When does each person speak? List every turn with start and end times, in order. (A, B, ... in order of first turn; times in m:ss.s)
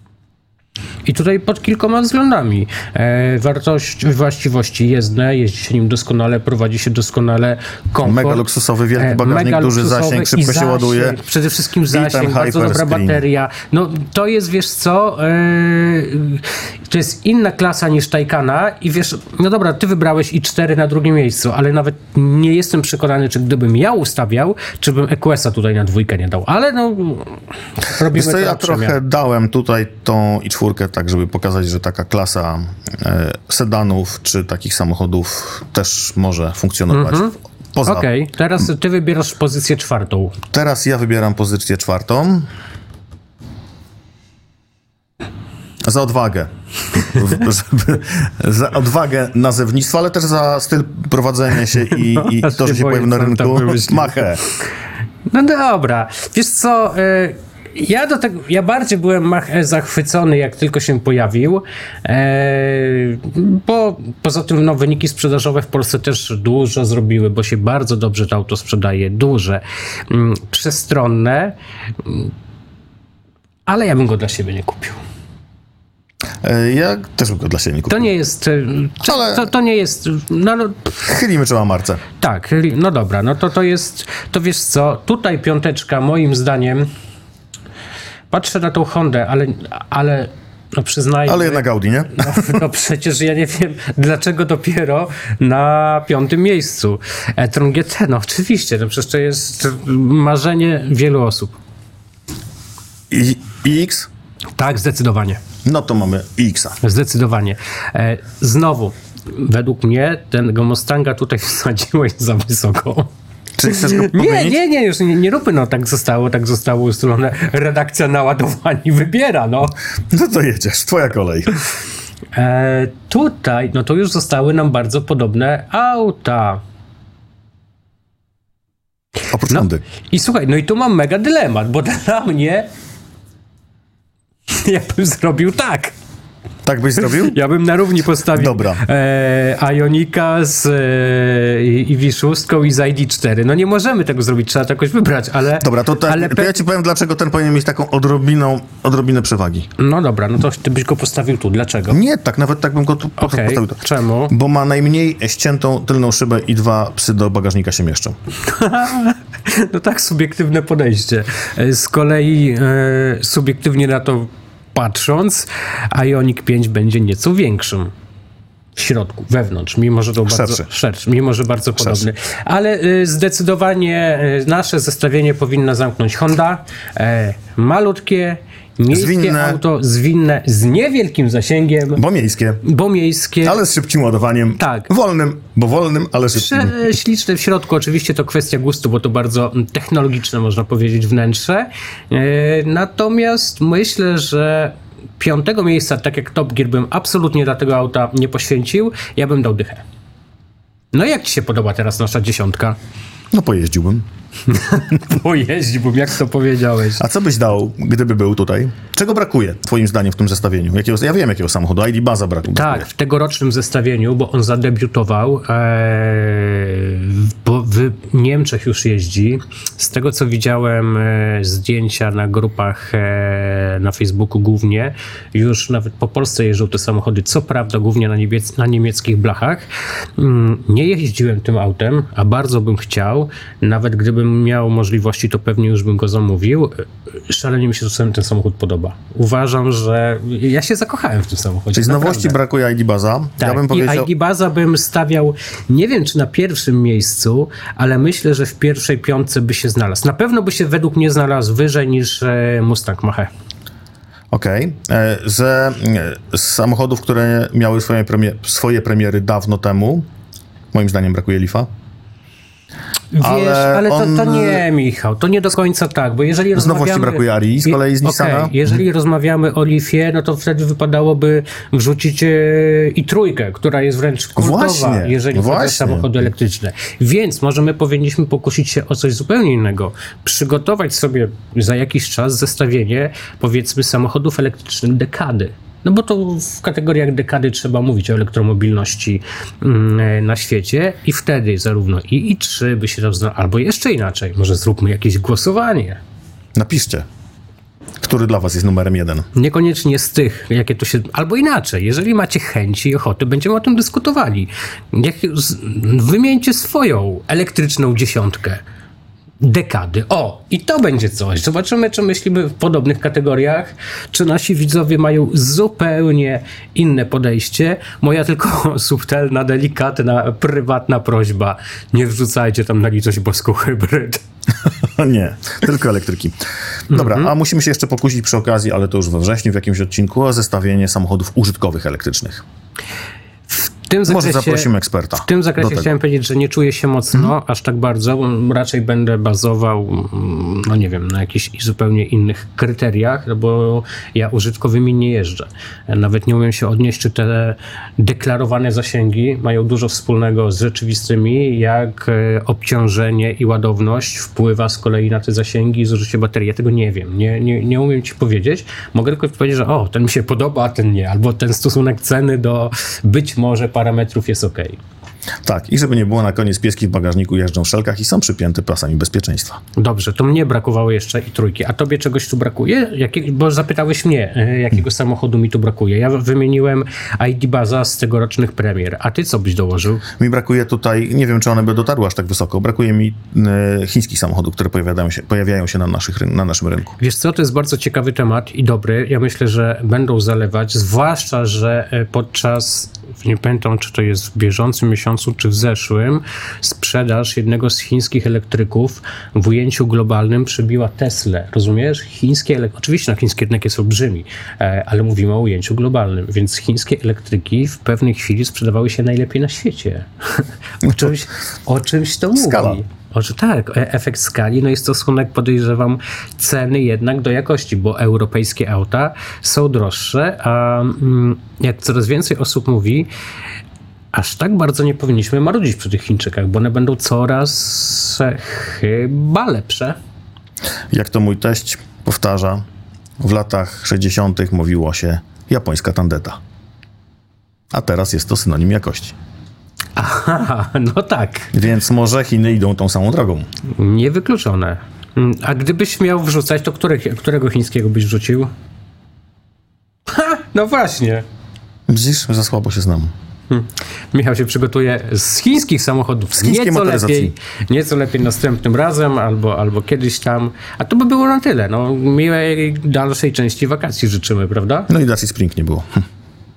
0:01.0-0:08.4 A
0:08.0-0:11.2 B
0:09.0-0:29.0 A
0:11.9-0:13.2 B
0:28.1-0:38.1 B
0:36.9-0:37.3 A
0:37.8-0:40.4 A
0:40.5-0:42.5 B
0:45.8-0:54.4 B
0:51.9-0:54.2 A
0:55.3-1:12.3 A
1:13.7-1:15.0 A
1:16.4-1:18.1 B
1:17.9-1:21.0 A
1:19.0-1:19.5 B
1:21.0-1:22.0 B
1:22.2-1:26.9 A
1:28.3-1:41.6 A
1:31.3-1:32.6 B
1:43.1-1:44.1 B
1:44.6-1:45.4 A
1:45.6-1:46.8 B
1:46.8-1:53.1 A
1:53.6-1:54.6 B
1:53.6-1:59.8 A
2:00.1-2:01.6 B
2:02.3-2:06.6 A
2:09.3-2:09.8 B
2:09.5-2:12.7 A
2:14.5-2:15.9 A
2:16.6-2:17.4 B
2:17.0-2:26.6 A
2:18.3-2:18.8 B
2:25.6-2:29.7 B
2:29.8-2:32.0 A
2:31.9-2:38.2 B
2:33.2-2:34.3 A
2:38.5-2:47.9 A
2:48.8-3:02.0 A
2:50.3-2:50.7 B
2:51.8-2:52.1 B
2:58.9-2:59.6 B
3:02.0-3:02.6 B
3:02.6-3:03.6 A
3:03.4-3:06.9 B
3:04.6-3:04.9 A
3:06.3-3:19.8 A
3:20.9-3:22.8 A
3:23.3-3:24.0 B
3:24.5-3:27.0 A
3:27.0-3:32.9 B
3:32.5-4:02.4 A
4:01.7-4:04.1 B
4:03.4-4:13.3 A
4:14.3-4:20.1 B
4:20.7-4:21.7 B
4:23.1-4:56.0 A
4:23.2-4:24.6 B
4:26.6-4:28.8 B
4:34.4-4:36.3 B
4:56.6-4:57.1 B
4:58.0-4:59.3 B
4:59.3-5:08.6 A
5:09.4-5:24.2 A
5:24.8-5:26.4 B
5:26.9-5:32.4 B
5:26.9-5:27.3 A
5:33.5-6:04.8 A
5:34.1-5:35.9 B
6:05.4-6:09.6 B
6:09.8-6:20.0 A
6:20.2-6:27.0 B
6:27.0-7:03.1 A
6:50.8-6:51.1 B
6:52.4-6:52.8 B
7:04.1-7:10.0 A
7:10.9-7:12.6 B
7:13.2-7:16.4 B
7:17.7-7:19.2 B
7:20.0-7:21.5 A
7:21.5-7:23.5 B
7:23.7-7:28.5 A
7:30.1-7:31.2 A
7:31.9-7:33.1 B
7:33.5-7:44.9 A
7:36.4-7:37.3 B
7:44.9-7:46.0 B